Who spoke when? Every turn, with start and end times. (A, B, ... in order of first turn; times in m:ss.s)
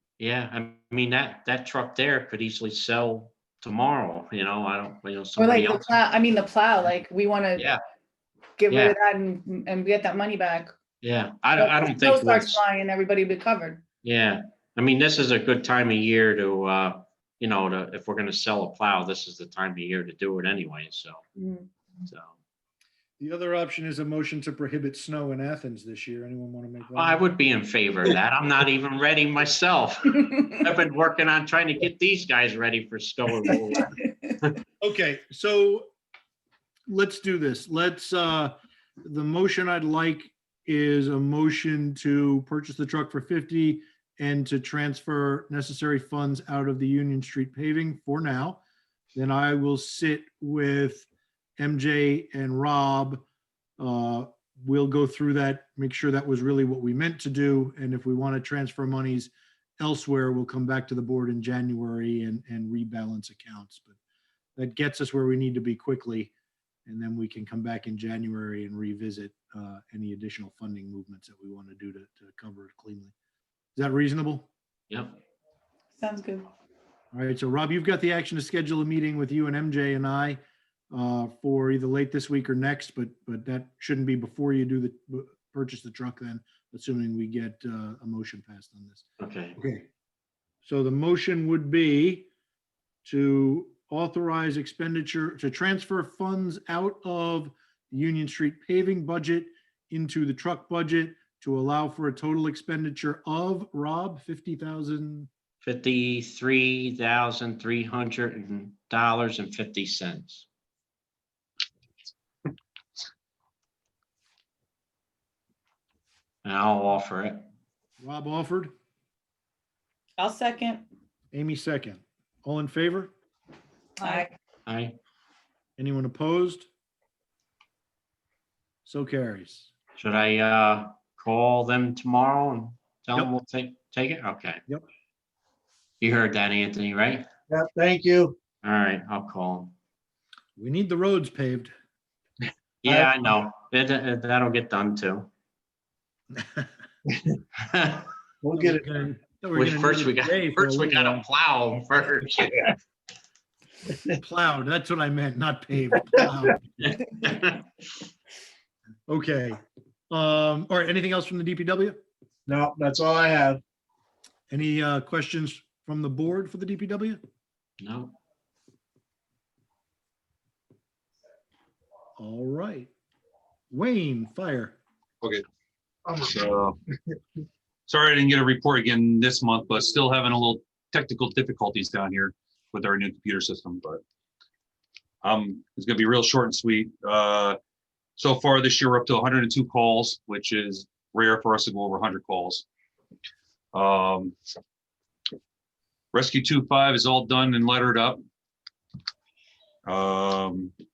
0:00.2-0:06.0 A
0:05.4-0:07.7 B
0:08.6-0:10.8 B
0:08.7-0:08.9 A
0:11.0-0:12.6 A
0:11.6-0:13.8 B
0:14.0-0:21.3 A
0:21.4-0:21.7 B
0:22.0-0:22.4 A
0:23.2-0:27.2 C
0:26.9-0:34.5 A
0:34.8-0:35.9 C
0:36.9-0:48.6 C
0:49.1-0:51.1 C
0:51.6-0:53.2 C
0:53.8-1:04.0 C
1:04.6-1:06.3 C
1:06.8-1:13.1 C
1:13.8-1:14.5 C
1:14.9-1:15.1 A
1:16.0-1:16.5 B
1:17.1-1:20.4 C
1:20.9-1:29.0 C
1:29.2-1:29.6 A
1:29.6-1:29.9 C
1:30.6-1:32.3 C
1:33.0-1:45.3 C
1:45.6-1:50.5 A
1:56.4-1:57.4 A
1:58.0-1:58.7 C
2:00.2-2:00.9 B
2:01.3-2:03.1 C
2:04.0-2:04.3 B
2:04.7-2:05.0 A
2:05.8-2:06.7 C
2:08.8-2:09.7 C
2:10.0-2:14.6 A
2:16.0-2:17.3 A
2:17.5-2:18.4 D
2:18.6-2:19.7 A
2:20.6-2:21.7 C
2:22.8-2:25.3 A
2:26.4-2:26.6 C
2:27.6-2:28.1 A
2:28.4-2:28.9 D
2:28.5-2:31.2 C
2:29.5-2:32.7 A
2:34.2-2:36.6 C
2:36.8-2:37.6 A
2:39.1-2:42.0 C
2:42.5-2:43.6 D
2:44.5-2:47.2 C
2:47.8-2:48.2 A
2:52.2-2:52.9 C
2:53.7-2:54.8 C
2:56.2-2:56.8 E
2:57.9-3:04.0 E
3:05.2-3:07.6 E
3:08.2-3:12.6 E
3:13.7-3:14.3 E
3:16.1-3:18.2 E
3:19.8-3:20.7 E